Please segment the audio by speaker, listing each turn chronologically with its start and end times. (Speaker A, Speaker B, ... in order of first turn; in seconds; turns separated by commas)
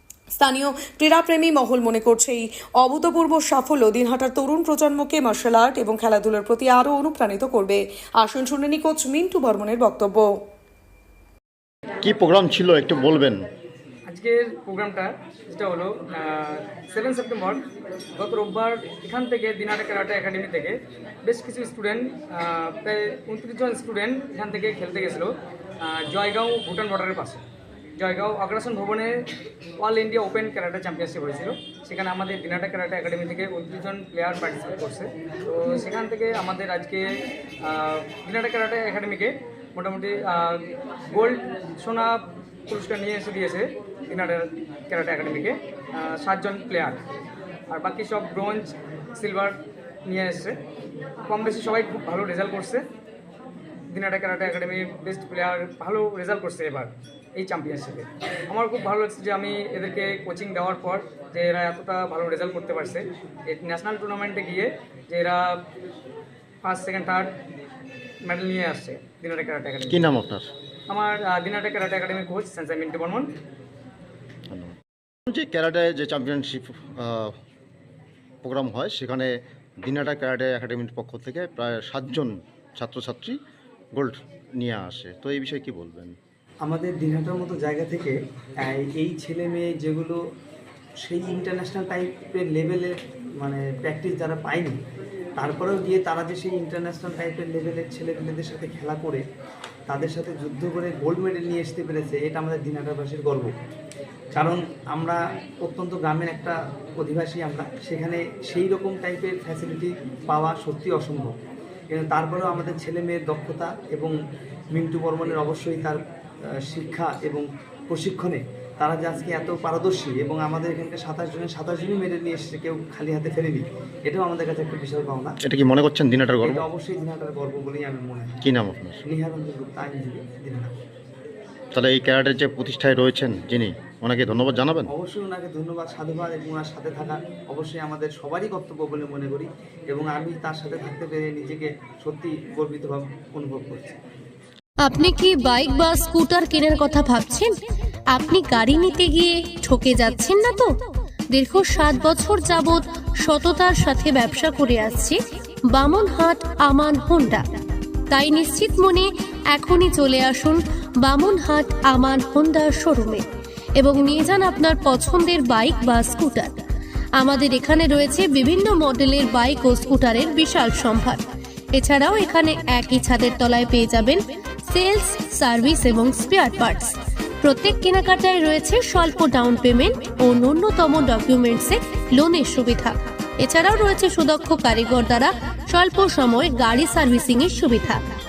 Speaker A: 0.3-10.4, Speaker B: 12.0-13.5, Speaker C: 14.1-17.6, Speaker C: 18.2-25.3, Speaker C: 25.8-27.4, Speaker C: 28.0-29.2, Speaker C: 29.8-37.0, Speaker C: 37.6-47.0, Speaker C: 47.7-50.5, Speaker C: 51.3-52.8, Speaker C: 53.9-65.6, Speaker C: 66.6-67.3, Speaker C: 68.2-70.0, Speaker B: 69.9-70.5, Speaker C: 70.9-73.3, Speaker B: 75.3-77.3, Speaker B: 78.4-83.4, Speaker B: 83.9-86.2, Speaker D: 86.6-90.2, Speaker D: 91.0-94.8, Speaker D: 95.4-99.2, Speaker D: 99.9-103.5, Speaker D: 104.3-111.3, Speaker D: 111.9-114.1, Speaker D: 114.7-116.0, Speaker D: 116.7-125.4, Speaker B: 125.4-126.6, Speaker D: 126.4-128.3, Speaker B: 128.4-129.0, Speaker D: 129.0-130.7, Speaker B: 131.7-134.9, Speaker D: 134.9-143.9, Speaker E: 144.8-147.5, Speaker E: 148.1-150.7, Speaker E: 151.3-157.4, Speaker E: 158.1-163.2, Speaker E: 163.8-166.5, Speaker E: 167.2-171.2, Speaker E: 171.7-188.0